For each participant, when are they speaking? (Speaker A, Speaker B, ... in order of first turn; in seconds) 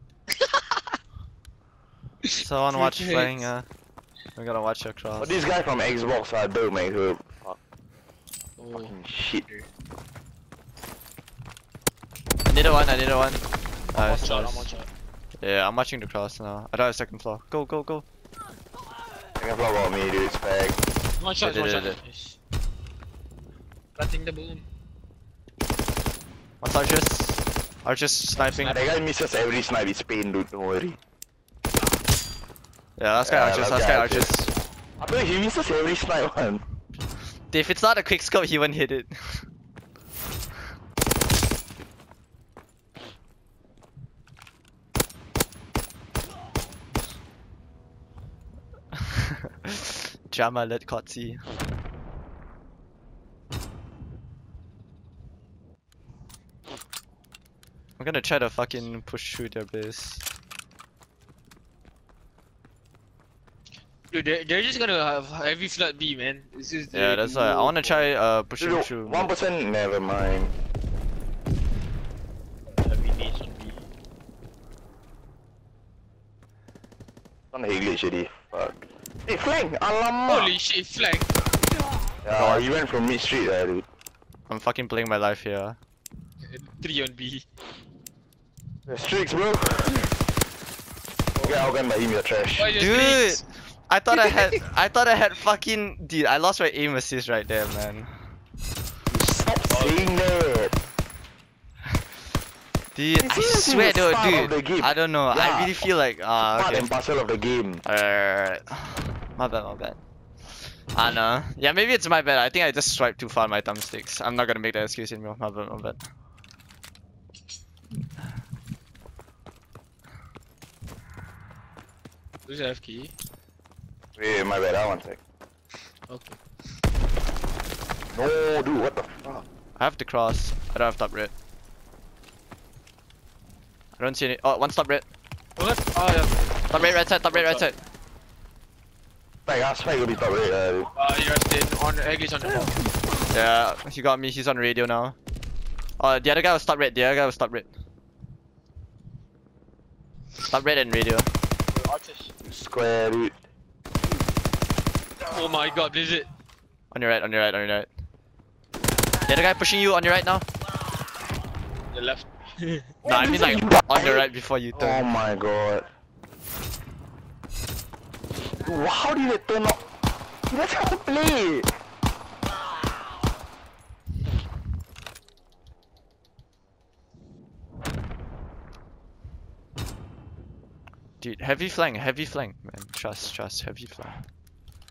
Speaker A: 0.4-0.7, 2.2-3.5, 8.6-9.7, 13.9-14.9, 21.2-22.4, 24.0-24.6, 64.1-68.1, 72.8-73.8, 80.2-81.3, 86.5-87.4, 91.4-91.6, 92.5-93.4, 94.1-94.5, 99.7-100.1, 122.5-123.1, 126.1-126.4, 135.6-137.7, 140.9-142.8, 151.7-152.3, 155.2-156.3, 161.9-162.9
Speaker B: 2.4-3.7, 4.4-5.4, 12.5-13.4, 13.9-14.7, 15.4-18.1, 21.4-22.0, 26.6-28.8, 33.0-34.5, 37.5-39.5, 50.3-51.5, 58.0-60.2, 66.9-69.3, 82.3-82.7, 84.5-85.8, 92.7-98.1, 102.9-106.9, 107.8-110.0, 110.9-116.0, 129.8-131.3, 134.0-135.0, 136.7-137.8, 143.3-145.2, 146.0-147.7, 150.5-151.3, 156.9-157.9, 159.3-160.4, 163.0-165.0, 181.2-184.2
Speaker C: 5.2-7.6, 8.8-9.4, 19.4-20.8, 28.6-31.0, 33.2-34.3, 35.0-36.6, 68.6-70.5, 77.5-80.5, 82.2-83.9, 88.9-90.1, 91.4-92.7, 99.1-100.8, 103.2-105.8, 106.4-107.8, 124.2-125.2, 128.1-129.4, 139.4-140.9, 152.4-153.4, 163.0-165.9, 168.6-169.8, 170.5-171.7